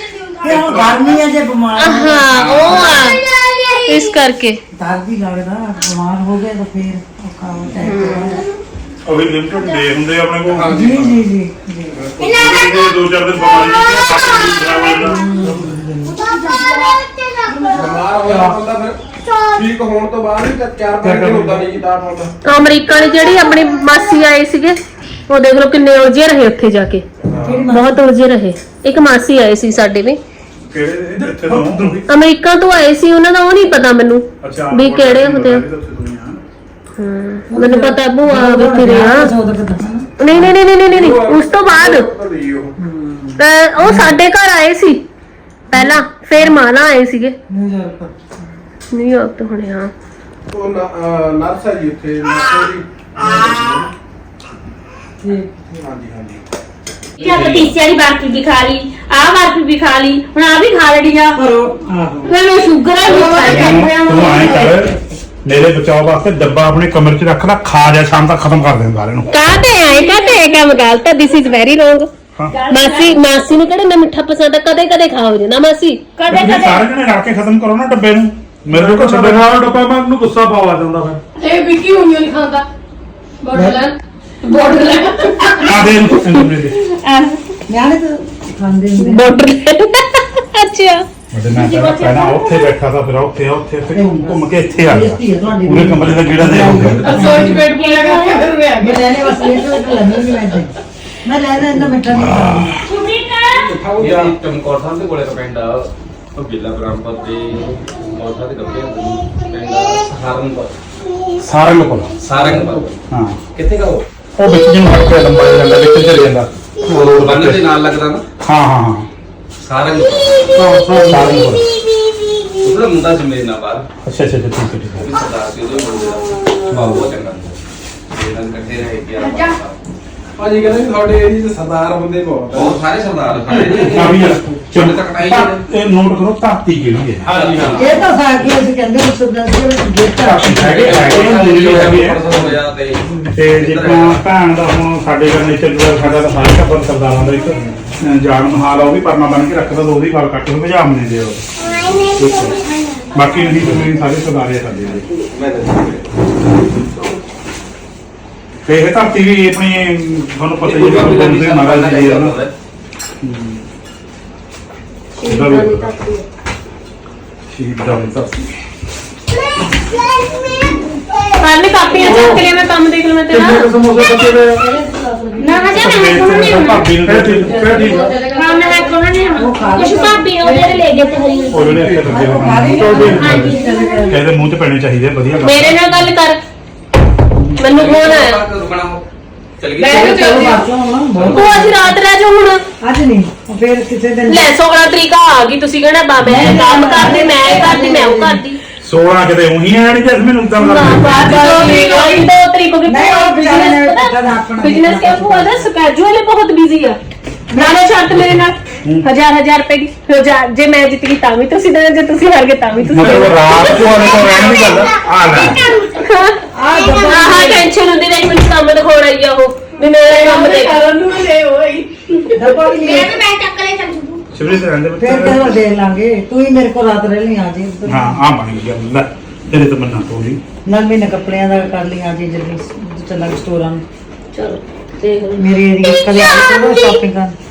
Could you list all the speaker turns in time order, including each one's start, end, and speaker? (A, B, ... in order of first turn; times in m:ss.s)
0:00.4-0:02.7 A
0:00.5-0:01.1 B
0:01.8-0:03.2 C
0:02.3-0:03.1 D
0:03.8-0:04.6 C
0:04.7-0:08.4 A
0:07.8-0:08.4 C
0:09.0-0:11.2 B
0:10.5-0:11.1 E
0:10.7-0:12.0 A
0:12.2-0:15.2 B
0:15.0-0:16.1 F
0:15.0-0:16.1 A
0:17.7-0:22.4 E
0:18.2-0:18.6 F
0:21.0-0:21.7 F
0:22.4-0:24.8 C
0:25.3-0:27.0 C
0:27.3-0:27.6 B
0:27.3-0:27.6 F
0:27.4-0:28.0 A
0:27.7-0:30.2 C
0:30.7-0:32.0 B
0:31.1-0:32.0 F
0:32.1-0:35.6 C
0:34.4-0:36.4 B
0:37.0-0:39.3 C
0:37.5-0:40.5 A
0:40.2-0:42.1 C
0:40.9-0:42.7 E
0:42.8-0:44.2 A
0:43.4-0:45.0 C
0:45.7-0:47.3 C
0:45.7-0:46.6 A
0:47.5-0:48.4 A
0:48.9-0:49.9 C
0:50.5-0:53.9 E
0:55.2-0:55.9 A
0:55.8-0:56.4 E
0:57.2-1:01.4 G
0:57.2-0:57.7 D
1:01.4-1:02.3 A
1:02.3-1:04.9 G
1:03.0-1:04.9 A
1:03.4-1:04.9 B
1:05.4-1:09.3 B
1:09.3-1:12.1 C
1:09.8-1:10.4 G
1:12.5-1:13.2 G
1:12.7-1:16.8 C
1:16.3-1:19.5 B
1:18.7-1:21.2 F
1:21.4-1:22.6 G
1:23.4-1:25.8 G
1:23.5-1:23.8 A
1:24.5-1:24.7 C
1:25.6-1:26.8 B
1:27.1-1:27.3 C
1:27.7-1:29.3 A
1:29.0-1:31.0 C
1:31.3-1:37.6 B
1:31.5-1:32.6 G
1:33.9-1:37.7 A
1:37.0-1:39.6 G
1:38.8-1:40.7 A
1:41.2-1:42.7 A
1:42.1-1:42.8 B
1:42.8-1:43.7 G
1:43.5-1:44.4 E
1:44.0-1:50.7 D
1:51.4-1:52.4 B
1:52.2-1:53.0 D
1:53.1-1:53.4 B
1:53.5-1:54.0 D
1:54.4-1:57.6 B
1:56.9-1:58.2 D
1:58.4-1:59.1 B
1:59.6-2:00.5 D
2:00.5-2:01.5 F
2:00.9-2:01.6 B
2:02.6-2:03.8 D
2:04.0-2:05.1 B
2:05.0-2:07.6 D
2:06.7-2:07.0 B
2:08.1-2:09.8 D
2:09.2-2:09.6 G
2:10.4-2:12.8 E
2:12.5-2:15.6 D
2:13.5-2:14.2 E
2:13.7-2:17.3 B
2:17.2-2:18.1 E
2:17.3-2:18.0 D
2:17.7-2:21.0 A
2:20.2-2:22.4 B
2:20.6-2:24.2 D
2:23.3-2:35.0 B
2:35.3-2:36.0 D
2:38.6-2:42.3 B
2:40.6-2:42.5 D
2:43.2-2:43.6 B
2:45.2-2:46.2 C
2:45.2-2:45.9 B
2:47.5-2:48.6 B
2:51.4-2:53.7 C
2:52.0-2:52.4 F
2:53.3-2:54.6 F
2:55.3-2:56.9 G
2:55.7-2:57.8 B
2:56.9-2:58.2 F
2:57.5-3:01.9 G
2:59.3-3:01.5 A
3:01.5-3:06.0 B
3:01.6-3:02.1 E
3:02.0-3:04.1 A
3:02.7-3:03.5 F
3:03.2-3:04.2 G
3:05.4-3:06.4 C
3:07.6-3:08.4 C
3:07.6-3:09.0 D
3:09.6-3:10.4 D
3:09.8-3:10.6 G
3:09.8-3:12.0 A
3:11.3-3:12.6 C
3:12.8-3:14.5 A
3:14.3-3:18.6 C
3:16.2-3:18.4 A
3:16.2-3:16.6 B
3:18.8-3:21.6 B
3:20.6-3:27.0 C
3:20.8-3:22.3 G
3:22.8-3:25.7 A
3:27.5-3:28.1 A
3:27.5-3:34.6 C
3:32.8-3:35.7 B
3:33.8-3:34.5 G
3:36.0-3:36.4 C
3:36.5-3:37.7 A
3:36.9-3:41.3 C
3:39.9-3:41.9 G
3:42.3-3:43.2 A
3:42.4-3:44.2 G
3:44.3-3:45.5 B
3:45.0-3:48.2 A
3:47.9-3:50.4 B
3:50.6-3:53.8 A
3:54.3-3:55.5 C
3:55.4-3:57.4 A